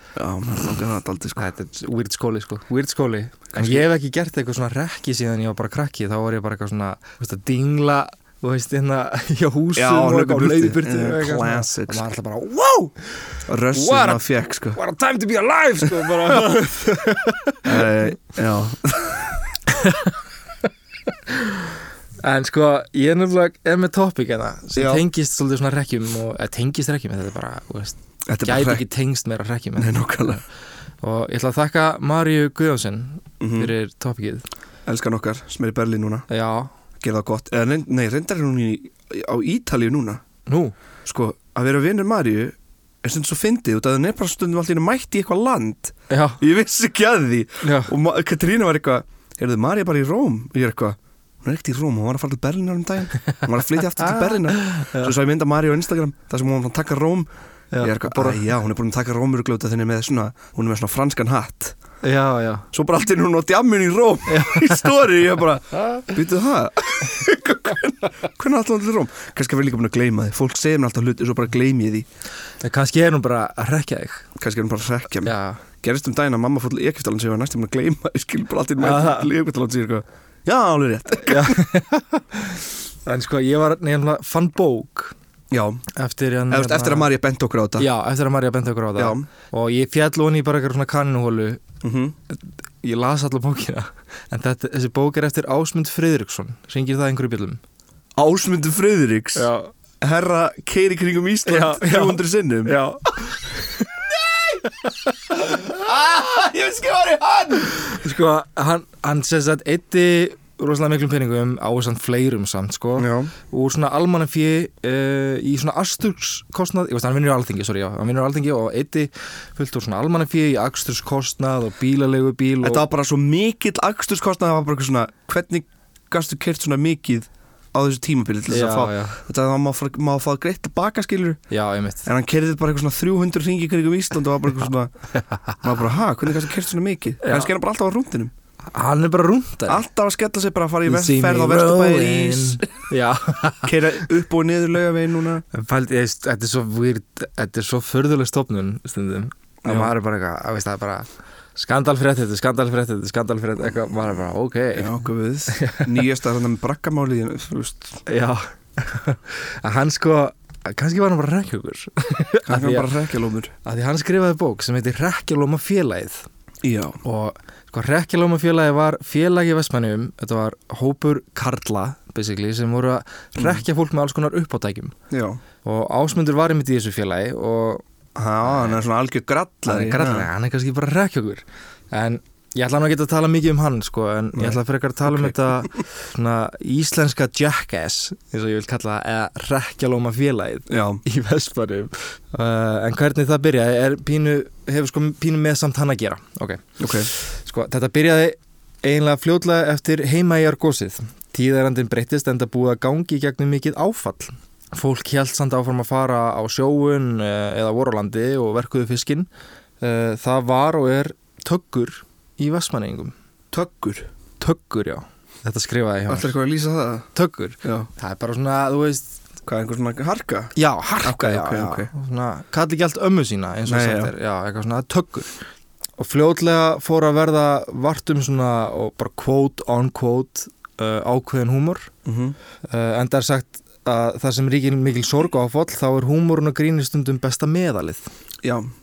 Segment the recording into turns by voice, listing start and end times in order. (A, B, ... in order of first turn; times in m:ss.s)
0:00.2-0:01.4 A
0:01.4-0:13.0 B
0:03.5-0:03.9 A
0:09.8-0:12.0 A
0:13.5-0:14.8 A
0:13.7-0:18.0 B
0:16.0-0:16.8 A
0:17.6-0:19.4 A
0:19.7-0:20.1 B
0:21.3-0:21.6 B
0:22.2-0:30.0 B
0:24.8-0:25.0 A
0:28.3-0:28.8 A
0:29.8-0:30.4 A
0:31.0-0:34.5 B
0:33.4-0:33.7 A
0:34.9-0:36.3 A
0:36.3-0:36.7 B
0:37.0-0:40.2 A
0:40.5-0:40.7 B
0:41.1-1:01.8 A
0:46.1-0:46.4 B
0:47.6-0:47.9 B
0:54.0-0:55.2 B
0:57.7-0:58.4 B
1:02.0-1:02.7 B
1:02.7-1:12.1 A
1:04.3-1:05.0 B
1:12.6-1:14.3 B
1:14.4-1:21.6 A
1:15.2-1:15.6 B
1:18.8-1:19.3 B
1:21.2-1:25.1 B
1:25.5-1:25.8 A
1:25.9-1:27.1 B
1:26.5-1:27.9 A
1:27.8-1:31.6 B
1:29.0-1:29.3 A
1:31.8-1:32.2 A
1:32.3-1:37.6 B
1:38.2-1:42.8 A
1:39.4-1:39.7 B
1:41.4-1:43.9 B
1:44.2-1:44.6 A
1:45.4-1:47.9 A
1:47.8-2:02.8 B
1:53.0-1:53.3 A
2:02.6-2:11.4 A
2:08.5-2:09.2 B
2:11.5-2:12.1 B
2:12.1-2:14.9 A
2:15.1-2:15.6 B
2:15.6-2:18.3 A
2:17.2-2:17.5 B
2:18.7-2:19.8 B
2:19.7-2:22.7 A
2:20.9-2:24.0 B
2:23.6-2:25.4 A
2:25.5-2:35.9 B
2:29.6-2:29.9 A
2:34.7-2:38.0 A
2:38.1-2:43.0 B
2:42.4-2:43.5 A
2:43.6-2:46.3 B
2:46.6-2:47.0 A
2:47.0-2:55.0 B
2:55.1-2:55.4 A
2:55.6-2:57.8 B
2:58.2-3:00.3 A
2:58.4-2:58.8 B
2:59.7-3:29.3 B
3:04.3-3:05.4 A
3:10.7-3:11.0 A
3:16.8-3:17.1 A
3:29.8-3:33.1 B
3:33.5-3:34.1 A
3:34.4-3:36.4 B
3:36.1-3:37.1 A
3:37.1-3:39.2 B
3:37.6-3:37.9 A
3:39.4-3:41.9 A
3:40.6-3:45.3 B
3:43.7-3:44.1 A
3:46.0-3:51.9 B
3:52.1-3:52.4 A
3:52.6-3:58.1 B
3:58.4-3:58.7 A